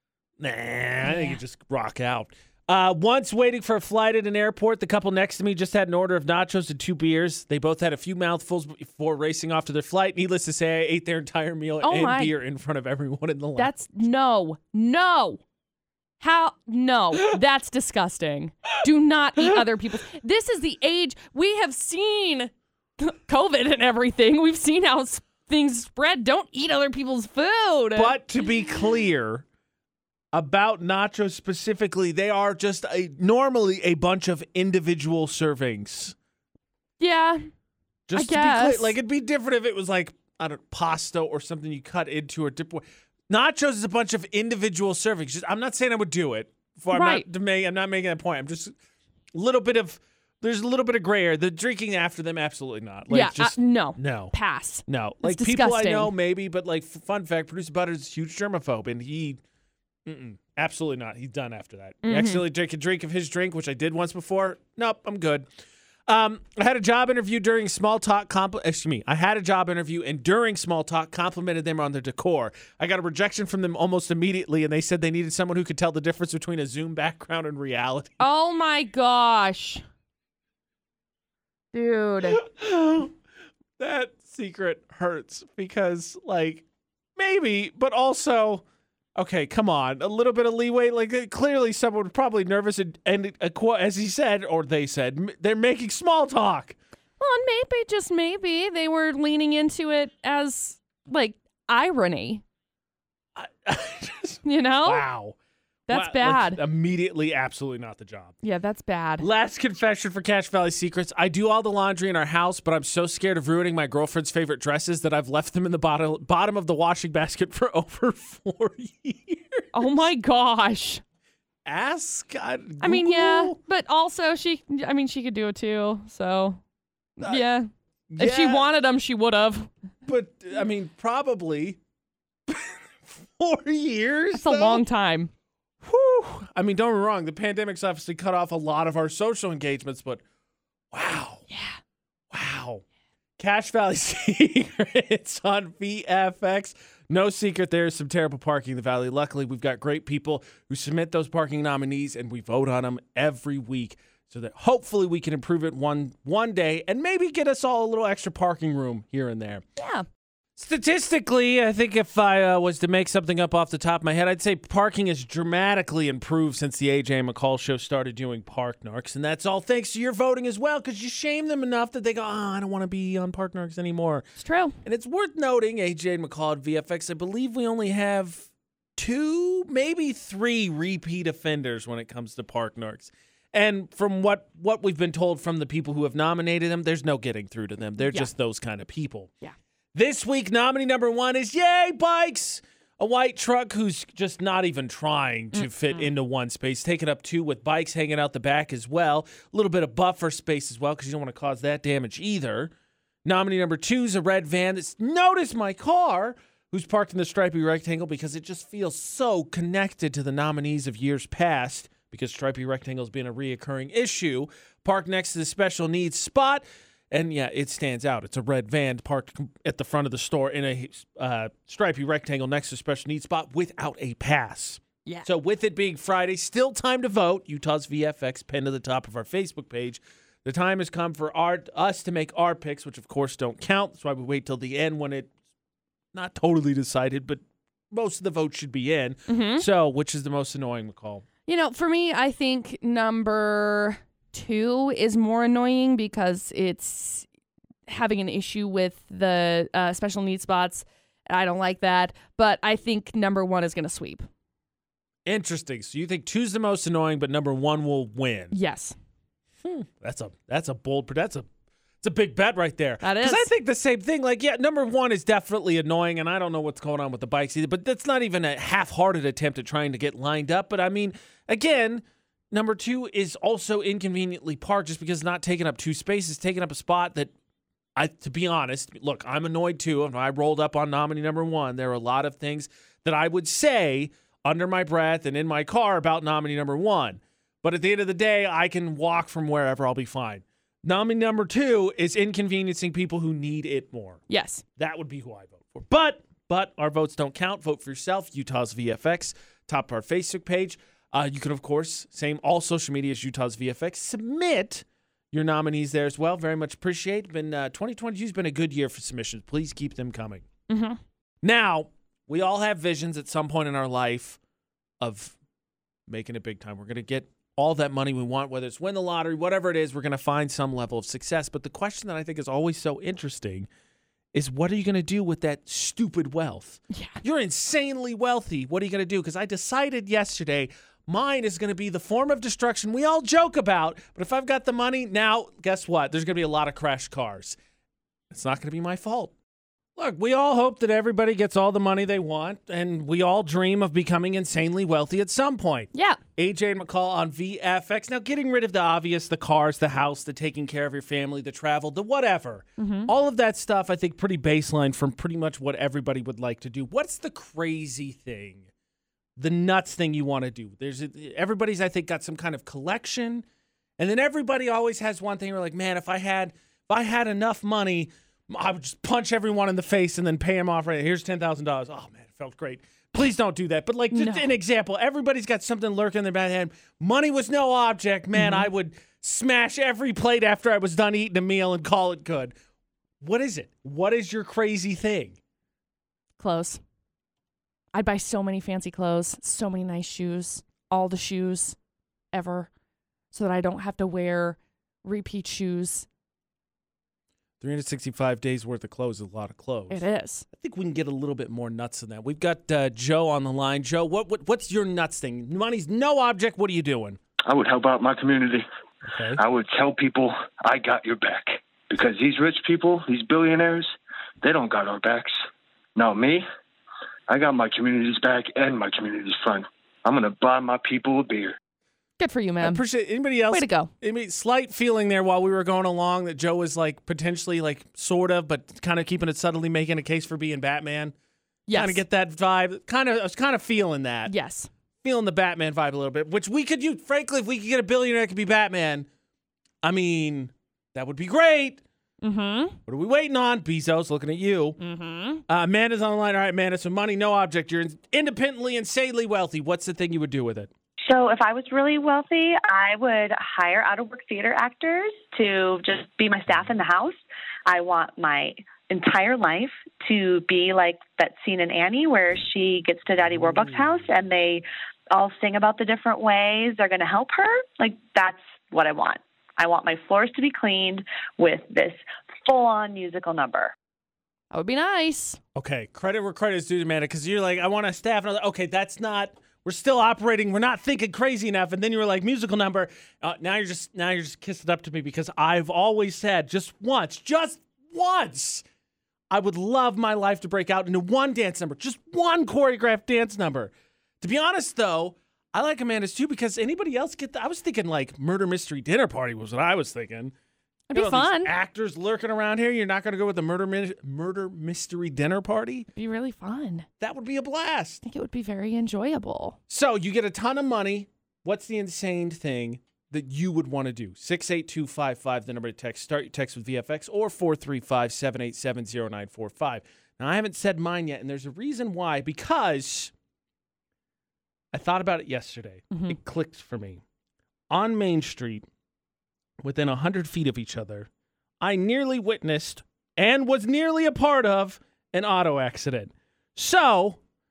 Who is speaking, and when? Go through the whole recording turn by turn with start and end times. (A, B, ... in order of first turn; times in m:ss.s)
0:00.4-0:13.7 A
0:01.0-0:01.4 B
0:11.8-0:12.3 B
0:13.6-0:15.4 B
0:16.2-0:28.2 B
0:27.9-0:29.4 A
0:30.3-0:36.1 A
0:37.0-0:37.4 B
0:38.1-0:48.7 A
0:38.1-0:39.0 B
0:46.9-0:47.2 B
0:49.3-0:54.3 A
0:53.1-0:56.1 B
0:54.9-0:59.4 A
1:00.0-1:05.4 A
1:02.0-1:02.4 B
1:06.1-1:18.2 A
1:18.2-1:19.8 B
1:21.7-1:22.4 B
1:22.2-1:23.1 A
1:23.8-1:26.6 A
1:27.2-1:28.6 A
1:29.2-1:36.8 A
1:37.2-1:42.4 B
1:43.4-1:45.4 A
1:44.4-1:45.0 B
1:45.9-1:46.6 B
1:45.9-1:48.3 A
1:48.4-1:49.2 B
1:49.2-1:59.9 A
1:59.7-2:01.0 B
2:01.6-2:03.6 A
2:02.8-2:06.6 B
2:07.2-2:07.7 B
2:08.1-2:08.6 A
2:08.2-2:09.7 B
2:10.0-2:11.8 A
2:12.5-2:14.8 A
2:14.3-2:15.3 B
2:15.8-2:20.2 A
2:20.9-2:21.4 A
2:21.5-2:21.8 B
2:22.3-2:22.8 A
2:23.4-2:39.6 A
2:39.8-2:40.0 B
2:40.6-2:54.2 A
2:54.4-2:54.8 B
2:54.8-3:09.3 A
3:08.0-3:08.3 B
3:09.9-3:22.7 A
3:15.5-3:16.1 B
3:23.2-3:55.3 A
3:56.1-4:01.2 A
3:59.3-3:59.6 B
4:01.5-4:07.2 B
4:07.9-4:14.3 B
4:15.2-4:18.5 A
4:18.5-4:19.0 B
4:19.6-4:21.5 A
4:22.0-4:37.3 A
4:23.0-4:23.5 B
4:38.0-4:54.2 A
4:54.3-4:54.6 B
4:54.8-5:10.4 A
5:10.7-5:11.0 B
5:11.4-5:14.4 A
5:15.0-5:15.3 A
5:16.1-5:23.7 A
5:24.3-5:37.6 A
5:26.9-5:27.2 B
5:38.3-5:39.3 A
5:40.0-5:58.7 A
5:52.8-5:53.1 B
5:59.4-6:03.4 A
6:04.0-6:22.5 A
6:14.1-6:14.5 B
6:18.3-6:18.7 B
6:23.2-6:25.4 A
6:26.4-6:26.8 B
6:27.9-6:31.8 B
6:32.3-6:32.7 B
6:33.3-6:36.1 B
6:37.6-6:47.2 A
6:39.9-6:40.4 B
6:47.5-6:48.6 C
6:49.0-6:49.4 A
6:49.4-6:55.4 C
6:56.0-6:56.4 C
6:57.3-7:01.6 C
7:02.2-7:02.8 B
7:02.6-7:11.1 A
7:03.5-7:03.9 B
7:11.7-7:12.0 B
7:11.7-7:14.3 A
7:14.2-7:14.7 B
7:15.0-7:19.1 A
7:19.8-7:21.8 A
7:22.2-7:22.8 B
7:22.8-7:24.8 A
7:24.8-7:25.4 B
7:25.5-7:30.7 A
7:31.0-7:53.7 D
7:54.5-7:55.4 B
7:55.5-8:08.6 A
8:09.3-8:20.3 A
8:20.9-8:21.5 B
8:20.9-8:25.9 A
8:26.0-8:26.9 B
8:27.0-8:28.0 A
8:28.0-8:29.6 B
8:29.7-8:43.1 A
8:44.7-8:47.0 A
8:45.9-8:46.2 B
8:47.7-8:48.6 A
8:49.6-8:51.1 A
8:51.6-8:57.2 A